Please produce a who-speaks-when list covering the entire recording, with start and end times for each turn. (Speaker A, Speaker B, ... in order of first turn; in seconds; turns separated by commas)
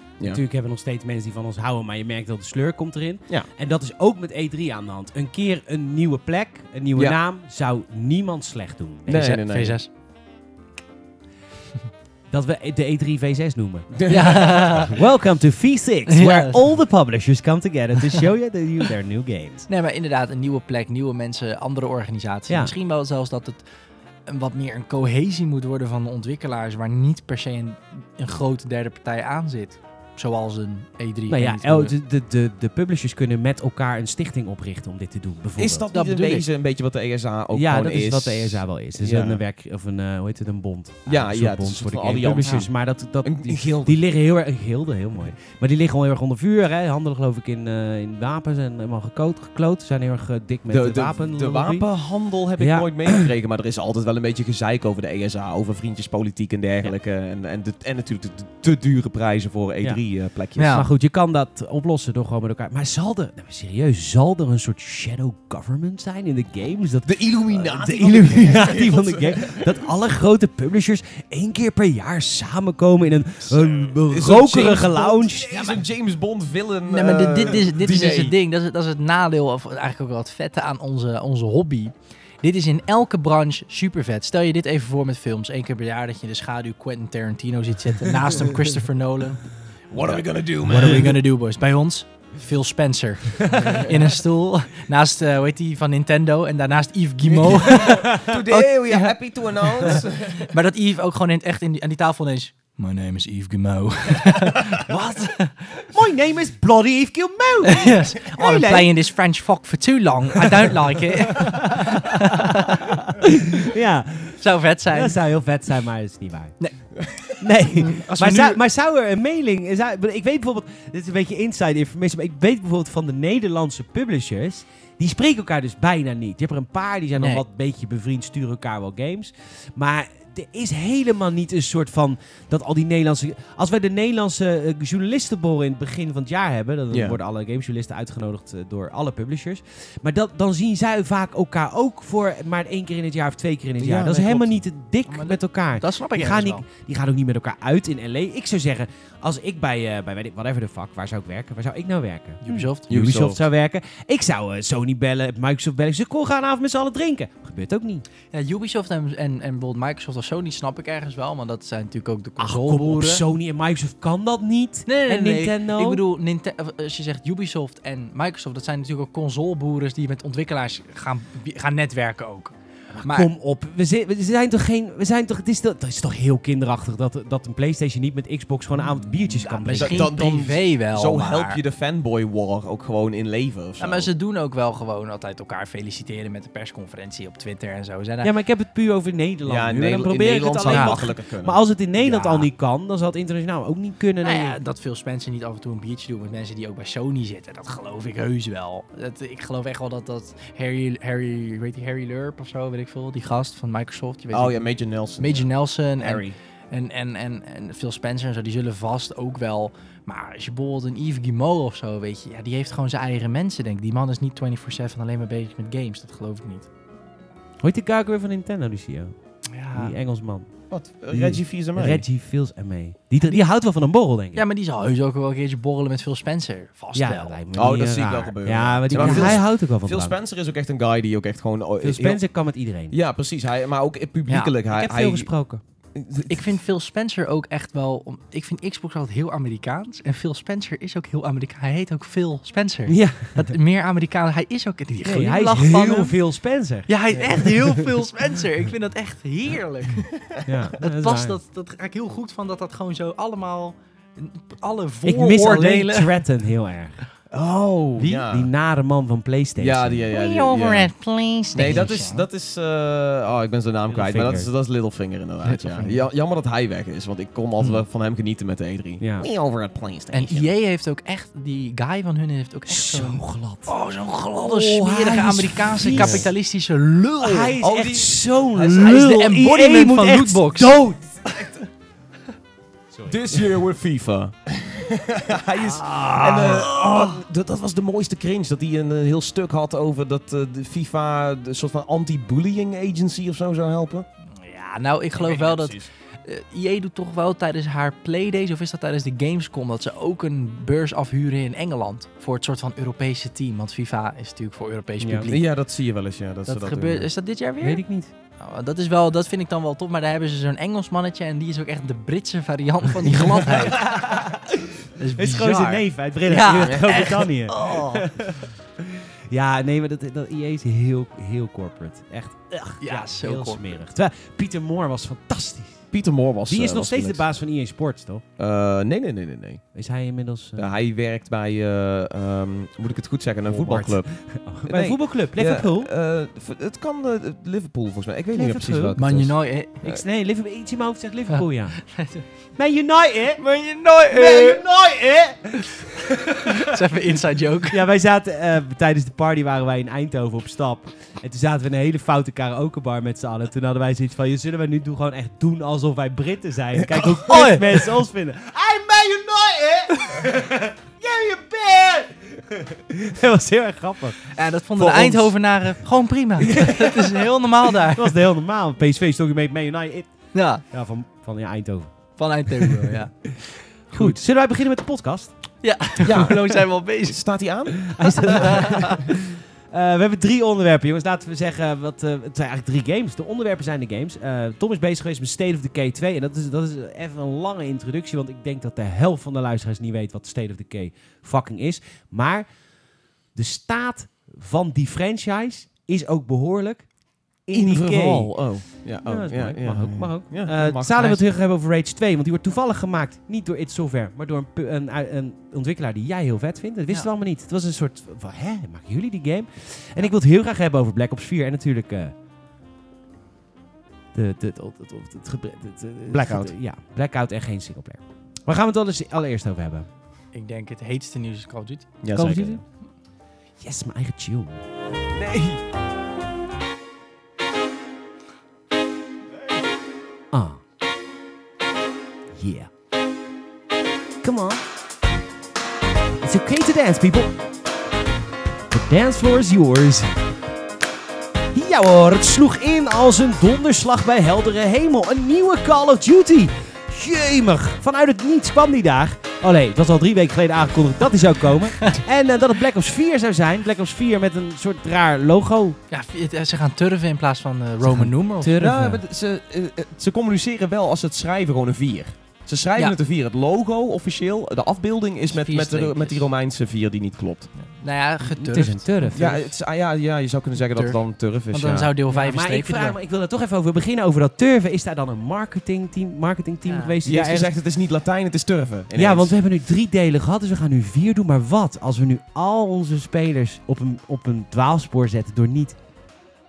Speaker A: 0.2-9.3, Speaker B: 9.1-9.8, Speaker C: 9.1-9.9, Speaker A: 12.3-19.7, Speaker B: 14.0-15.0, Speaker C: 14.1-15.0, Speaker C: 16.1-16.6, Speaker C: 19.7-23.6, Speaker C: 24.3-31.9, Speaker A: 31.3-35.9, Speaker B: 35.6-39.4, Speaker C: 35.9-36.5, Speaker A: 37.5-51.9, Speaker B: 41.1-44.0, Speaker B: 50.7-60.7, Speaker A: 52.6-53.3, Speaker C: 60.6-60.9, Speaker A: 60.6-75.7, Speaker B: 67.1-69.8, Speaker B: 73.5-78.3, Speaker C: 76.9-105.9, Speaker B: 89.9-91.2, Speaker A: 90.7-91.1, Speaker A: 93.4-93.8, Speaker B: 93.6-94.1, Speaker B: 97.2-100.5, Speaker A: 97.9-98.3, Speaker A: 104.9-108.9, Speaker C: 107.7-112.9, Speaker A: 111.3-116.6, Speaker C: 114.4-115.2, Speaker C: 116.6-116.8, Speaker A: 117.4-158.0, Speaker C: 117.8-118.6, Speaker C: 127.2-127.4, Speaker B: 136.9-137.2, Speaker B: 143.8-144.6, Speaker C: 145.1-146.6, Speaker C: 152.4-152.9, Speaker B: 152.9-153.4, Speaker C: 158.3-163.2, Speaker A: 162.4-166.0, Speaker C: 164.9-173.3, Speaker A: 173.0-180.1, Speaker B: 179.2-184.1, Speaker C: 179.6-181.6, Speaker C: 183.8-188.3, Speaker A: 188.2-194.6, Speaker B: 189.4-191.6, Speaker C: 190.7-191.1, Speaker C: 191.9-192.5, Speaker C: 194.2-204.6, Speaker B: 204.3-206.4, Speaker C: 205.2-216.7, Speaker A: 217.6-224.4, Speaker C: 219.5-220.0, Speaker B: 220.7-222.0, Speaker C: 223.2-223.5, Speaker C: 224.3-227.4, Speaker A: 226.9-230.2, Speaker B: 227.5-236.5, Speaker C: 228.9-229.4, Speaker A: 231.8-232.9, Speaker A: 234.7-235.6, Speaker C: 236.3-246.2, Speaker A: 242.9-243.5, Speaker A: 245.0-246.9, Speaker C: 246.9-256.2, Speaker B: 247.1-247.9, Speaker A: 250.4-251.4, Speaker A: 255.1-257.0, Speaker B: 257.3-258.5, Speaker A: 258.2-260.0, Speaker B: 259.6-260.9, Speaker C: 260.1-262.2, Speaker B: 261.5-270.5, Speaker A: 263.9-264.5, Speaker C: 265.4-265.9, Speaker A: 269.0-269.3, Speaker C: 270.1-277.6, Speaker A: 272.7-273.7, Speaker A: 274.4-276.3, Speaker B: 275.9-276.3, Speaker A: 277.2-281.2, Speaker B: 277.6-278.9, Speaker C: 278.6-281.6, Speaker B: 283.1-294.1, Speaker A: 285.7-286.5, Speaker C: 285.9-287.2, Speaker C: 294.4-305.6, Speaker B: 295.1-295.9, Speaker A: 305.0-305.3, Speaker B: 305.2-307.1, Speaker C: 306.5-314.2, Speaker A: 307.6-308.1, Speaker A: 313.8-314.4, Speaker C: 314.9-318.3, Speaker A: 315.2-318.6, Speaker A: 319.3-325.9, Speaker C: 322.8-323.8, Speaker B: 325.9-327.3, Speaker A: 326.5-328.2, Speaker B: 328.4-329.7, Speaker A: 329.7-330.7, Speaker B: 330.6-340.0, Speaker A: 333.5-335.9, Speaker A: 338.3-339.0, Speaker C: 338.9-339.8, Speaker A: 339.8-341.9, Speaker C: 341.3-342.2, Speaker A: 342.6-343.4, Speaker C: 343.4-344.6, Speaker A: 344.1-346.3, Speaker C: 346.4-347.8, Speaker A: 347.7-364.3, Speaker C: 357.2-358.0, Speaker C: 364.3-368.2, Speaker B: 364.8-365.3, Speaker B: 366.6-366.9, Speaker A: 367.9-372.7, Speaker C: 370.3-370.6, Speaker C: 372.2-373.4, Speaker A: 373.8-375.5, Speaker B: 373.9-374.2, Speaker C: 375.6-377.4, Speaker B: 376.0-378.5, Speaker A: 377.9-392.6, Speaker C: 378.0-379.0, Speaker A: 393.3-412.1, Speaker B: 397.5-401.2, Speaker A: 414.1-419.9, Speaker B: 416.1-416.5, Speaker C: 420.3-422.0, Speaker B: 422.0-422.6, Speaker A: 422.1-422.6, Speaker A: 423.6-424.6, Speaker B: 425.1-425.6, Speaker A: 430.3-430.6, Speaker A: 432.4-432.7, Speaker A: 434.2-434.6, Speaker A: 436.2-437.4, Speaker A: 438.7-440.2, Speaker A: 441.5-455.8, Speaker C: 455.9-458.6, Speaker A: 457.8-459.0, Speaker B: 458.6-467.5, Speaker C: 465.3-466.2, Speaker C: 467.6-469.5, Speaker A: 468.4-469.2, Speaker B: 468.5-471.9, Speaker C: 470.7-473.0, Speaker A: 472.1-477.5, Speaker C: 476.6-476.9, Speaker B: 477.0-479.4, Speaker A: 478.9-485.9